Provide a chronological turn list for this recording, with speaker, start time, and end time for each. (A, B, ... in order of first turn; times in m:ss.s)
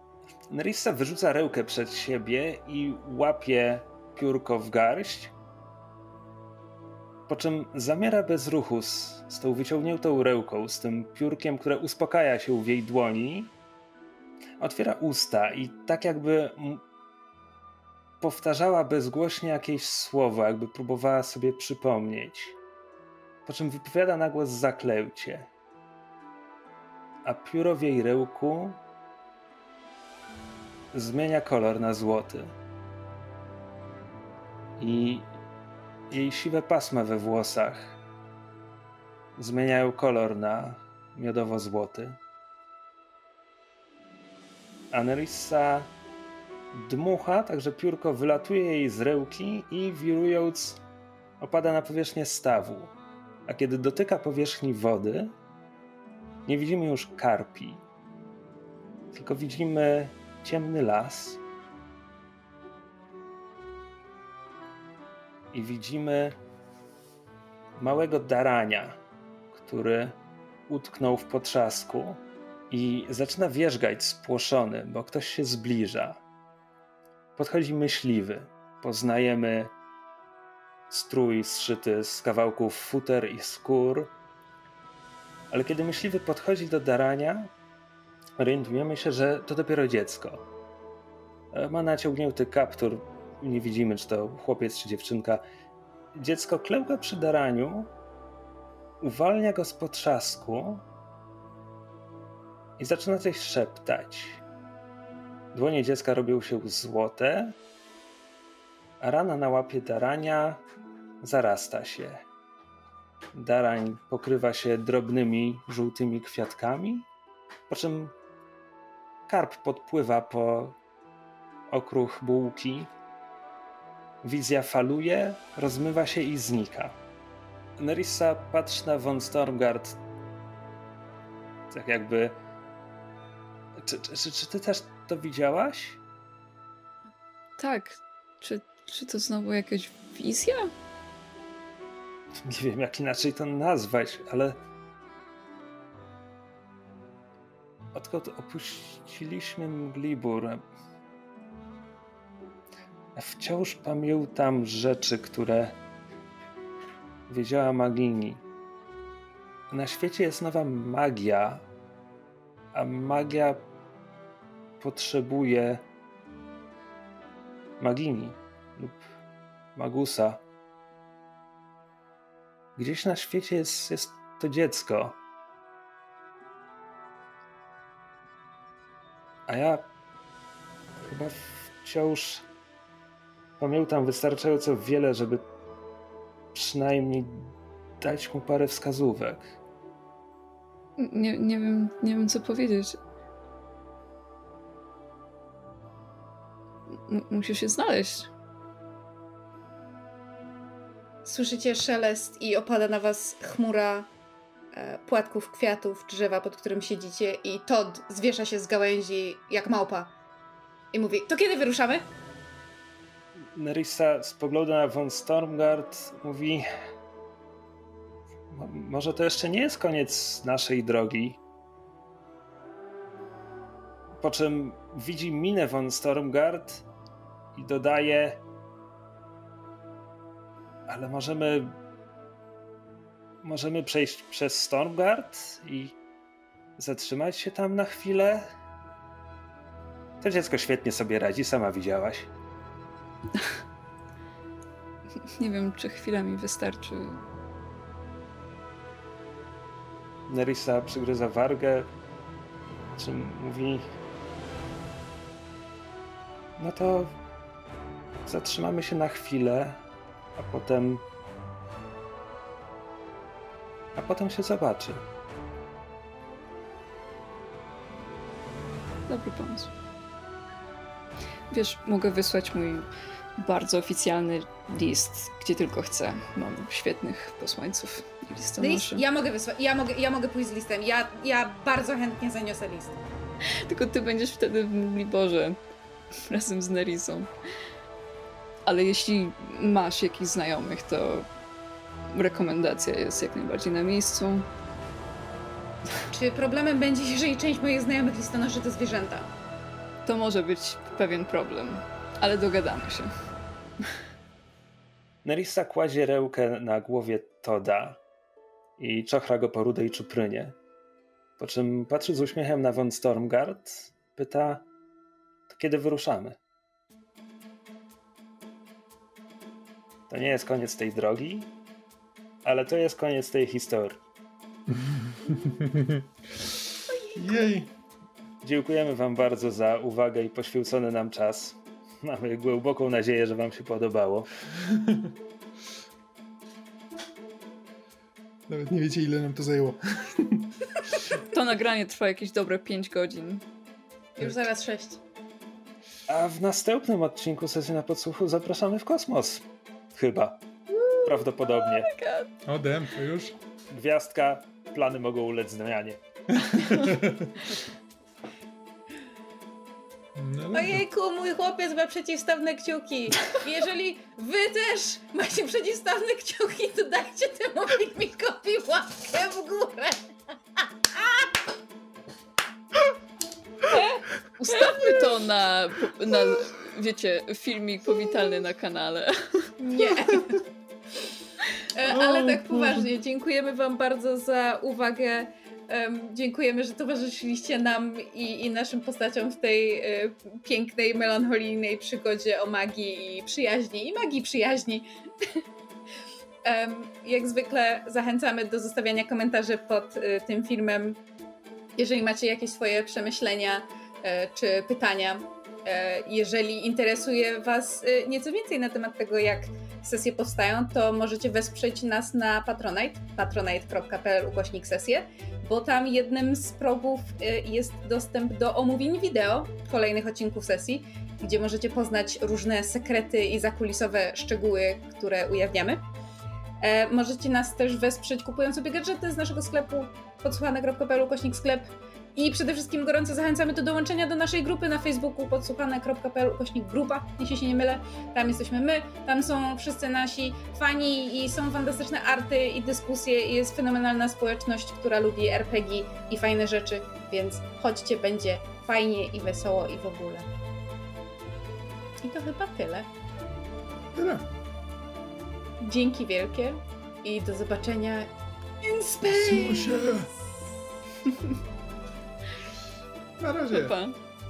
0:00.5-0:05.3 A
0:07.3-0:13.5 A
0:14.6-0:16.8 A
0:18.2-0:22.6 A
0:23.4-0:25.5 A
0:27.2-0:28.8 A
0:30.9-0:32.5 A
0:34.8-0:35.3 A
0:36.1-0:38.0 A
0:39.4-0:42.2 A
0:44.9-0:45.9 A
0:46.7-0:50.8 A
0:51.4-0:52.9 A
0:53.5-0:55.3 A
0:56.4-0:57.8 A
0:59.1-1:01.4 A
1:05.5-1:06.3 A
1:07.8-1:09.0 A
1:09.5-1:10.2 A
1:10.7-1:16.2 A
1:17.4-1:19.7 A
1:20.9-1:24.1 A
1:25.5-1:27.5 A
1:28.4-1:30.4 A
1:31.5-1:35.4 A
1:36.1-1:37.9 A
1:39.0-1:40.8 A
1:42.8-1:44.4 A
1:45.5-1:47.6 A
1:49.0-1:50.6 A
1:51.2-1:52.2 A
1:53.3-1:57.1 A
1:57.7-1:58.1 A
1:59.3-2:00.8 A
2:01.7-2:02.9 A
2:04.2-2:06.9 A
2:07.8-2:10.0 A
2:11.7-2:12.4 A
2:13.8-2:16.0 A
2:17.6-2:20.7 B
2:22.4-2:24.6 A
2:27.9-2:30.6 A
2:33.1-2:35.8 A
2:37.3-2:38.4 A
2:39.7-2:41.6 A
2:42.7-2:43.6 A
2:44.8-2:45.8 A
2:47.8-2:49.1 A
2:49.8-2:50.4 A
2:52.8-2:55.2 A
2:59.5-2:59.9 A
3:01.0-3:02.4 A
3:03.6-3:05.4 A
3:06.5-3:09.5 A
3:11.0-3:13.0 B
3:16.9-3:18.3 B
3:21.2-3:24.1 C
3:24.7-3:30.1 C
3:30.9-3:32.0 C
3:33.5-3:36.6 A
3:38.5-3:41.4 A
3:44.2-3:46.8 A
3:47.5-3:48.4 A
3:50.9-3:51.8 A
3:53.4-3:55.9 A
3:56.8-3:58.5 A
4:00.2-4:02.3 A
4:05.4-4:07.2 B
4:10.3-4:11.9 A
4:13.0-4:13.8 A
4:16.6-4:17.1 A
4:18.2-4:19.8 A
4:20.4-4:21.0 A
4:23.9-4:25.0 A
4:29.1-4:29.7 B
4:31.5-4:32.9 B
4:33.4-4:39.0 B
4:38.6-4:43.0 C
4:43.5-4:45.6 B
4:46.3-4:47.3 B
4:48.6-4:51.2 B
4:52.1-4:54.5 B
4:56.1-4:59.3 C
5:00.0-5:03.1 B
5:05.2-5:08.0 A
5:08.8-5:10.6 A
5:11.4-5:14.6 A
5:15.5-5:16.4 A
5:20.1-5:21.5 A
5:22.4-5:24.0 A
5:24.7-5:26.6 D
5:26.9-5:27.5 C
5:27.1-5:27.7 D
5:28.4-5:34.3 A
5:34.5-5:35.1 D
5:38.5-5:41.1 D
5:41.2-5:43.4 B
5:44.2-5:45.0 C
5:46.1-5:50.4 A
5:51.0-5:51.9 A
5:51.7-5:52.3 B
5:52.4-5:53.4 D
5:53.7-5:56.0 A
5:56.4-5:57.4 D
6:00.2-6:00.8 D
6:00.5-6:11.3 C
6:13.7-6:19.5 B
6:14.4-6:15.2 C
6:19.6-6:20.5 C
6:21.7-6:35.4 C
6:21.9-6:22.9 D
6:36.4-6:41.0 C
6:41.8-7:05.8 C
7:06.6-7:30.3 C
7:32.0-7:32.9 C
7:33.9-7:34.3 D
7:35.6-7:38.1 C
7:38.6-7:40.1 C
7:39.0-7:40.1 D
7:43.2-7:43.8 D
7:43.5-7:44.0 B